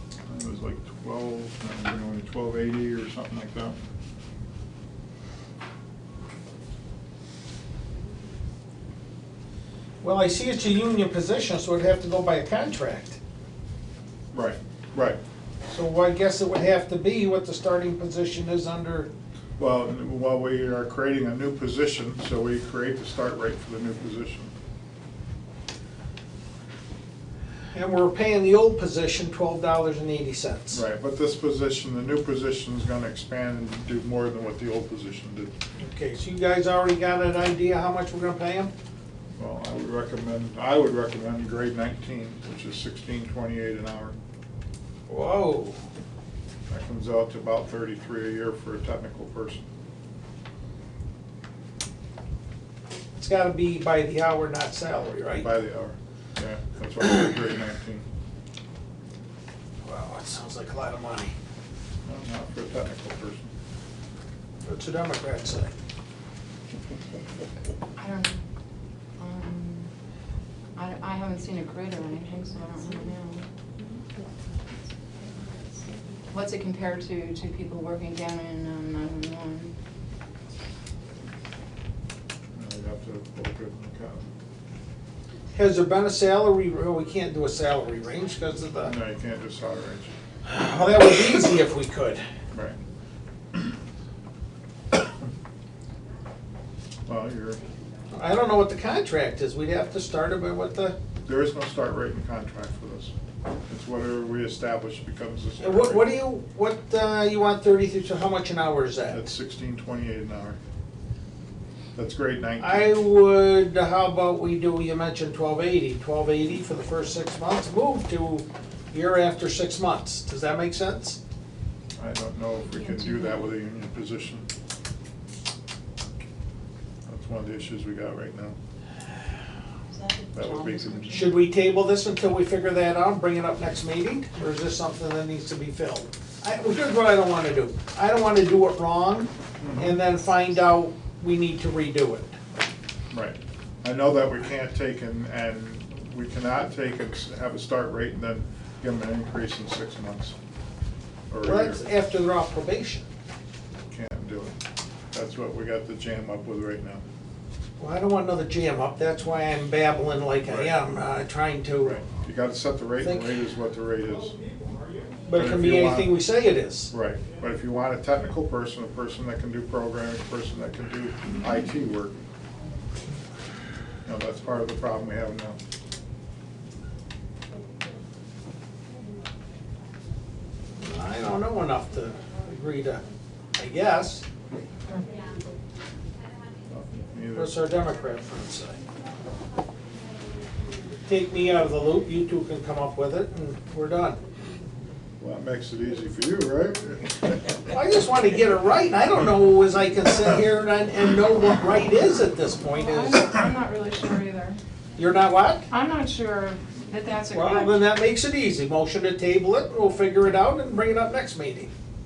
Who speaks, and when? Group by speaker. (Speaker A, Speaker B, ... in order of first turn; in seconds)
Speaker A: 0.3-3.8, 14.3-15.2, 19.6-24.5, 30.7-35.5, 39.4-44.2, 46.7-49.7, 55.3-58.0, 62.0-63.5, 82.5-84.3, 88.8-90.1, 97.1-97.6, 101.2-103.1, 103.7-106.2, 109.1-110.6, 112.0-113.0, 122.0-124.5, 127.0-128.5, 130.3-131.3, 139.6-140.0, 143.1-150.3, 151.3-151.8, 153.9-154.6, 155.1-157.0, 160.4-160.8, 161.8-164.4, 165.3-166.2, 166.9-172.2, 174.1-175.6, 186.7-187.6, 195.2-197.5
Speaker B: 10.0-13.2, 15.7-19.1, 27.7-30.8, 35.8-38.7, 45.1-45.8, 53.1-55.5, 59.8-61.3, 64.6-65.7, 85.5-89.0, 90.5-92.2, 98.1-101.0, 105.6-109.2, 112.6-121.2, 131.1-142.3, 151.4-153.1, 157.8-162.0, 163.0-163.3, 165.2-166.9, 180.8-183.0, 183.6-184.2, 187.3-188.8, 191.1-194.2, 197.7-203.3, 205.0-205.7, 207.3-211.7
Speaker C: 68.0-68.4, 69.2-69.9, 70.8-73.5, 76.3-79.7, 129.9-131.4, 202.7-204.6, 205.7-207.8